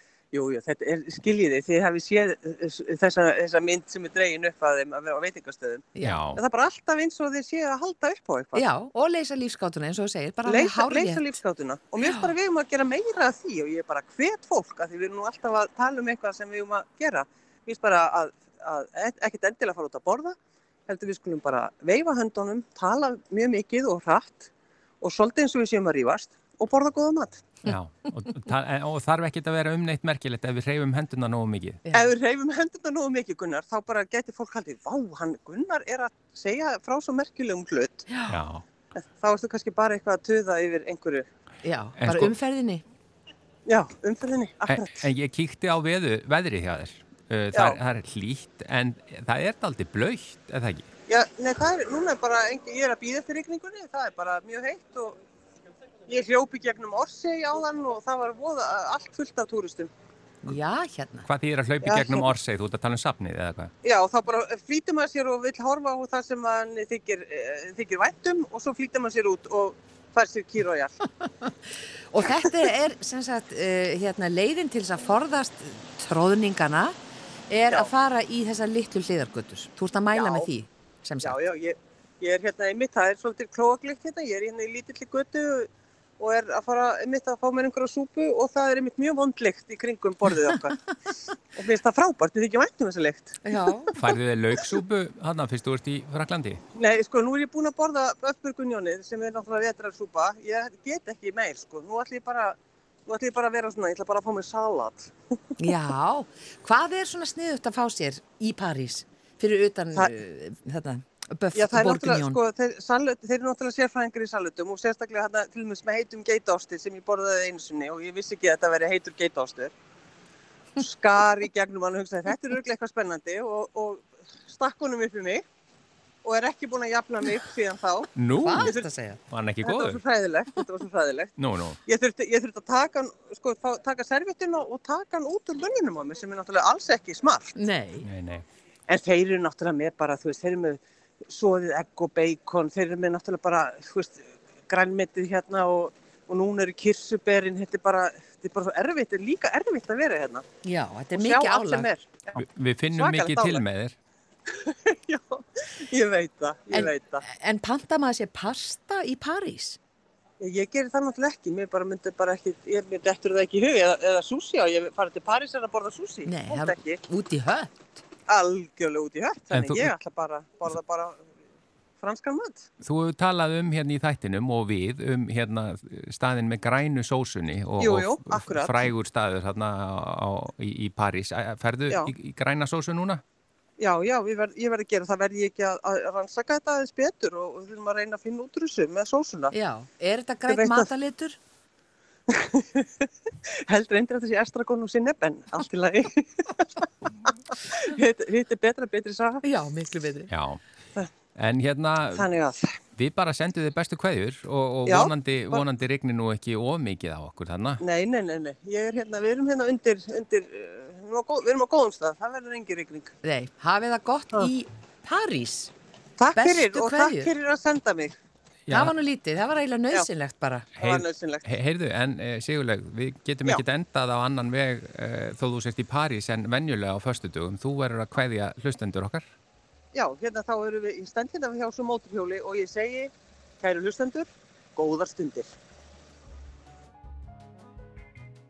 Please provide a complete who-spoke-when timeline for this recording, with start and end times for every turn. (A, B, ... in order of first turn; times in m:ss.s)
0:00.3-0:08.6 A
0:06.0-0:06.4 B
0:08.5-0:11.3 C
0:10.4-0:20.3 A
0:12.0-0:12.3 C
0:20.9-0:24.5 A
0:25.0-0:27.5 A
0:27.6-0:31.8 B
0:31.9-0:38.0 A
0:38.1-0:38.4 C
0:38.3-0:38.6 B
0:39.1-0:41.2 A
0:41.6-0:42.8 C
0:42.0-0:42.3 B
0:43.7-0:45.0 A
0:44.7-0:50.8 B
0:47.5-0:47.8 A
0:51.1-0:55.2 A
0:56.1-0:59.9 A
1:00.4-1:01.3 C
1:01.2-1:03.7 B
1:01.8-1:02.3 A
1:03.8-1:11.0 A
1:11.2-1:11.5 C
1:12.1-1:17.0 C
1:17.5-1:21.4 C
1:20.1-1:20.5 A
1:21.2-1:31.0 A
1:31.5-1:34.0 A
1:33.4-1:33.9 C
1:33.9-1:36.6 B
1:36.7-1:42.6 A
1:43.1-1:45.1 A
1:45.6-1:52.4 C
1:51.5-1:59.7 A
2:00.8-2:05.4 A
2:06.2-2:08.9 A
2:08.1-2:08.7 B
2:08.4-2:09.2 C
2:09.3-2:10.0 B
2:09.6-2:17.6 A
2:11.4-2:11.8 B
2:17.6-2:18.1 C
2:18.0-2:18.4 B
2:18.9-2:30.4 A
2:30.6-2:31.9 C
2:31.1-2:33.6 A
2:32.4-2:33.9 B
2:34.5-2:37.2 A
2:36.7-2:39.8 C
2:40.4-2:47.0 A
2:46.2-2:48.0 C
2:48.3-2:51.2 A
2:49.5-2:49.9 B
2:52.0-2:52.7 A
2:52.8-3:03.2 B
2:57.8-2:58.9 A
3:03.8-3:09.5 A
3:09.5-3:11.4 C
3:10.5-3:10.9 A
3:12.3-3:19.4 A
3:19.4-3:20.3 C
3:20.3-3:20.6 B
3:21.3-3:22.3 B
3:22.1-3:22.8 A
3:23.0-3:27.8 B
3:24.8-3:25.6 A
3:27.8-3:33.1 A
3:33.2-3:35.7 C
3:36.2-3:38.1 A
3:36.3-3:37.3 C
3:38.6-3:38.9 B
3:38.7-3:40.7 C
3:40.8-3:49.3 B
3:40.8-3:41.6 A
3:49.9-3:55.5 A